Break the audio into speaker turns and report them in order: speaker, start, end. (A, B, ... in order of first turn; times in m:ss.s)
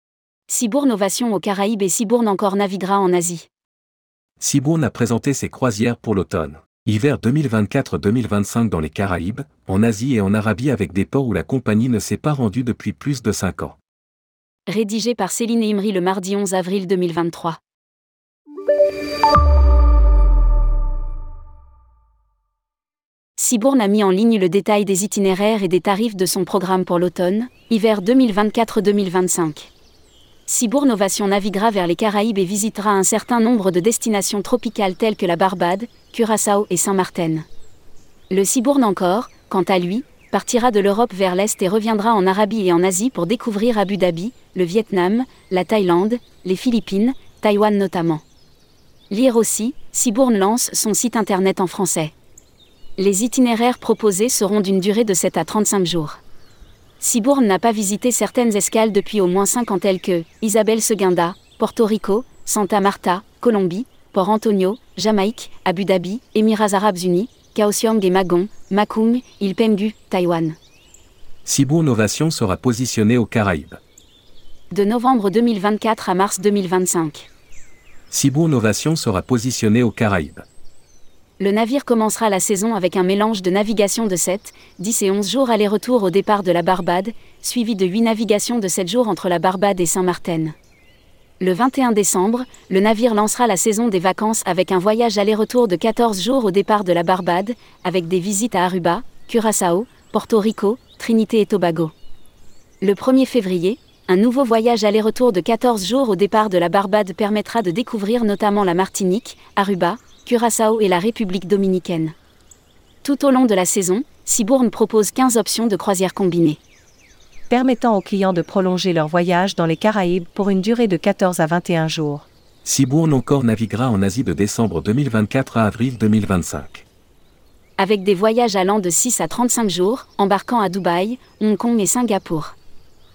0:00.5-0:03.5 A
0:04.4-0:13.8 B
0:14.7-0:17.6 A
0:23.4-0:29.7 A
0:30.5-0:37.5 A
0:38.3-0:48.2 A
0:49.1-0:52.1 A
0:53.0-0:56.2 A
0:57.0-1:10.6 A
1:11.5-1:13.8 B
1:14.7-1:17.3 A
1:18.1-1:20.4 B
1:21.4-1:30.6 A
1:31.4-1:41.9 A
1:42.8-1:52.2 A
1:53.0-1:56.6 A
1:57.5-2:02.3 C
2:02.6-2:06.8 B
2:07.8-2:12.6 A